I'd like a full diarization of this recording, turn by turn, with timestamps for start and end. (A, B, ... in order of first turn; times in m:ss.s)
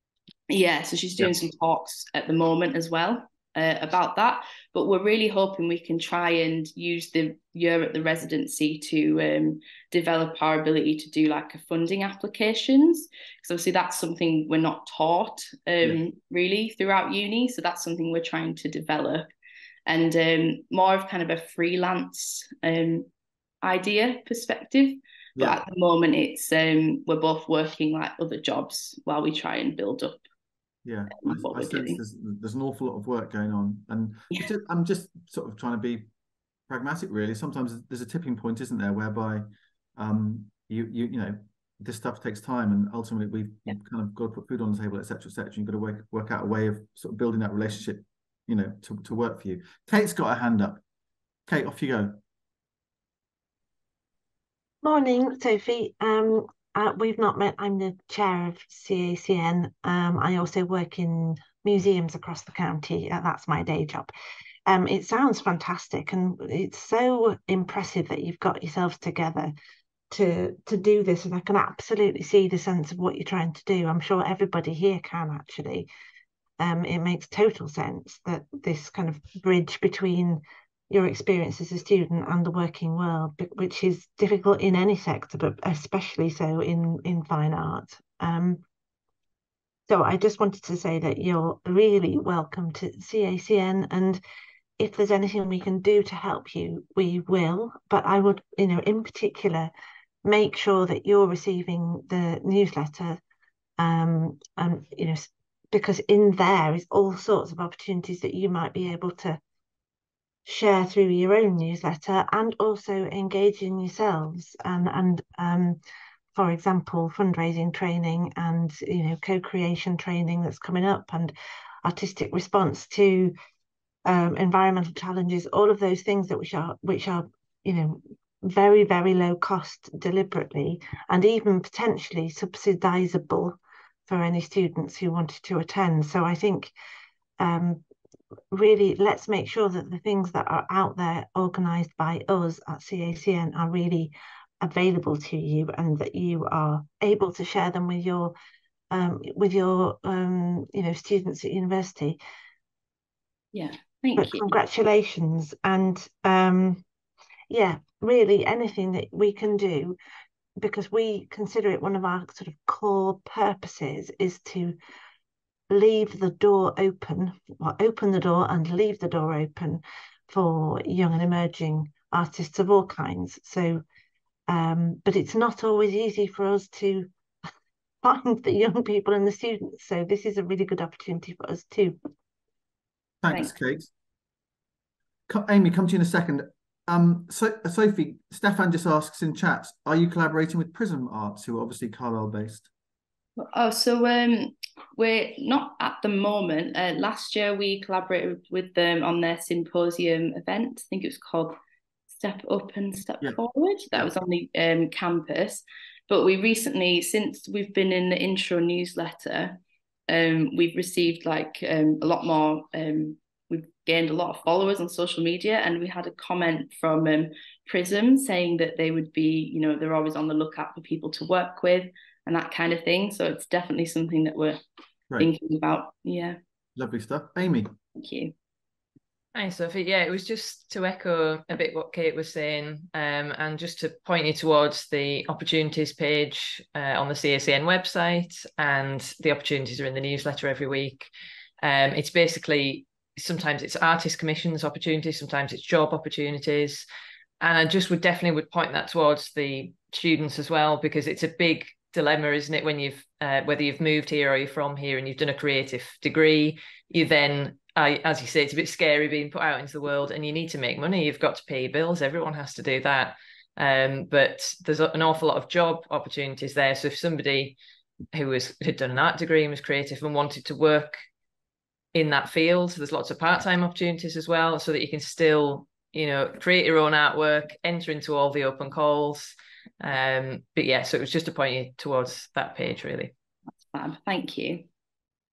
0:00.5-0:19.3 A
0:19.9-0:23.1 A
0:23.6-0:30.2 A
0:30.8-0:36.1 B
0:31.2-0:32.0 A
0:36.7-0:39.5 B
0:40.0-0:50.8 B
0:51.5-0:52.2 B
0:54.8-1:04.1 C
1:04.7-1:09.6 C
1:10.1-1:15.9 C
1:16.6-1:28.6 C
1:29.9-1:34.2 C
1:34.8-1:39.7 C
1:40.2-1:43.2 C
1:43.8-1:49.4 C
1:50.5-1:55.8 C
1:56.4-2:03.4 C
2:04.1-2:16.7 C
2:17.4-2:17.8 C
2:18.5-2:28.4 C
2:28.9-2:32.2 C
2:33.5-2:34.5 A
2:34.2-2:36.8 C
2:37.5-2:40.0 C
2:40.6-2:44.8 C
2:45.7-2:53.8 C
2:54.5-2:57.1 C
2:58.0-3:02.0 C
3:03.2-3:03.9 B
3:05.3-3:12.7 B
3:13.4-3:21.6 A
3:22.1-3:44.6 A
3:45.2-3:46.4 A
3:46.8-3:47.7 B
3:48.0-3:48.3 A
3:49.3-4:01.1 D
4:01.6-4:06.9 D
4:07.4-4:27.6 D
4:28.1-4:31.0 D
4:31.9-4:43.1 D
4:43.6-4:44.7 A